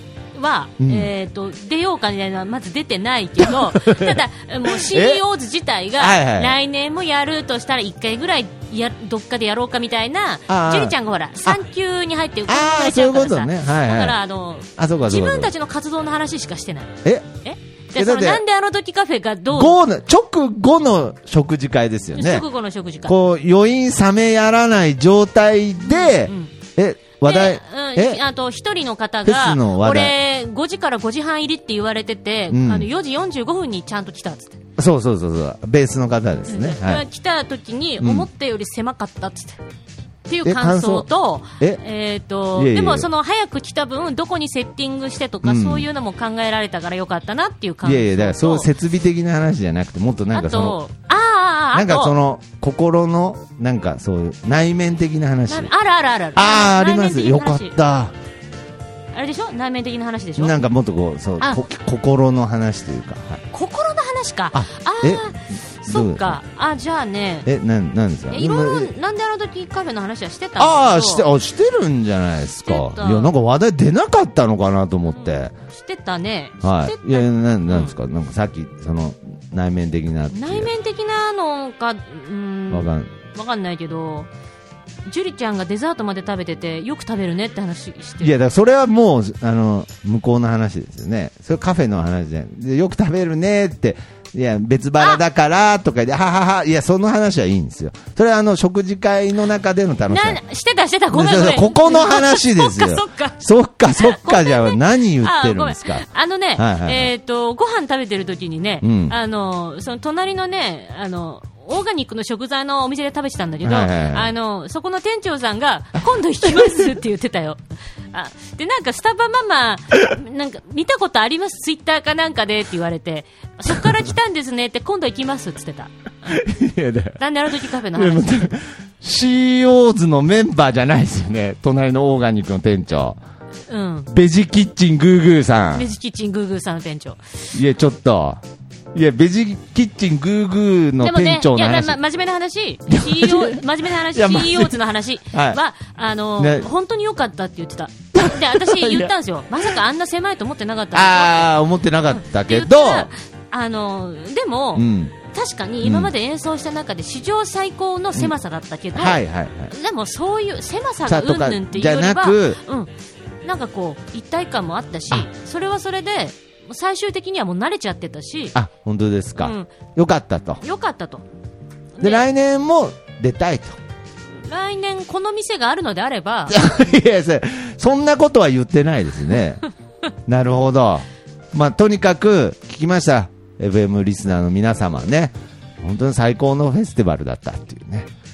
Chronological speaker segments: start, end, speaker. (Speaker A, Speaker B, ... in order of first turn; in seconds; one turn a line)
Speaker A: 0.3-19.8
Speaker B: 0.8-1.1
Speaker B: 3.4-5.2
Speaker B: 6.0-6.5
Speaker B: 10.5-11.6
Speaker B: 12.5-14.2
Speaker B: 14.8-15.5
Speaker B: 17.9-18.4
Speaker B: 19.5-22.4
Speaker A: 22.1-23.1
Speaker B: 23.1-28.2
Speaker A: 25.8-26.5
Speaker A: 27.2-34.6
Speaker B: 29.2-30.1
Speaker B: 32.5-32.9
Speaker B: 34.8-37.0
Speaker A: 36.5-39.6
Speaker B: 38.0-38.3
Speaker A: 40.3-48.7
Speaker B: 40.4-41.1
Speaker B: 42.5-43.1
Speaker B: 45.4-45.9
Speaker B: 47.8-50.8
Speaker A: 50.3-52.1
Speaker B: 51.7-55.7
Speaker A: 55.5-57.7
Speaker B: 56.3-58.1
Speaker A: 59.1-60.6
Speaker B: 60.4-63.4
Speaker A: 63.5-67.5
Speaker B: 64.5-65.3
Speaker B: 65.8-66.4
Speaker B: 67.5-68.9
Speaker A: 68.3-71.3
Speaker B: 70.6-75.5
Speaker A: 72.7-73.3
Speaker A: 75.2-77.9
Speaker B: 76.6-80.7
Speaker A: 80.3-84.3
Speaker B: 82.7-83.1
Speaker A: 85.0-88.3
Speaker B: 88.2-100.4
Speaker A: 100.1-103.4
Speaker B: 101.1-106.0
Speaker A: 104.0-117.6
Speaker B: 106.6-107.1
Speaker B: 108.8-109.1
Speaker B: 113.6-114.3
Speaker A: 118.1-126.4
Speaker B: 126.3-127.2
Speaker A: 127.2-128.5
Speaker B: 127.9-133.2
Speaker A: 133.7-134.1
Speaker B: 134.1-135.9
Speaker A: 135.7-137.5
Speaker B: 137.5-138.4
Speaker B: 138.9-142.0
Speaker A: 141.0-151.5
Speaker B: 142.9-144.8
Speaker B: 145.3-145.6
Speaker B: 146.4-146.7
Speaker B: 148.1-149.1
Speaker B: 150.9-153.1
Speaker A: 152.1-162.9
Speaker B: 154.7-155.1
Speaker B: 155.8-156.1
Speaker B: 158.9-159.7
Speaker B: 161.1-162.6
Speaker A: 163.4-168.6
Speaker B: 168.6-170.6
Speaker A: 169.4-169.7
Speaker A: 170.6-171.2
Speaker A: 172.0-172.3
Speaker B: 172.0-173.8
Speaker A: 174.5-176.6
Speaker B: 176.5-179.6
Speaker B: 180.3-188.1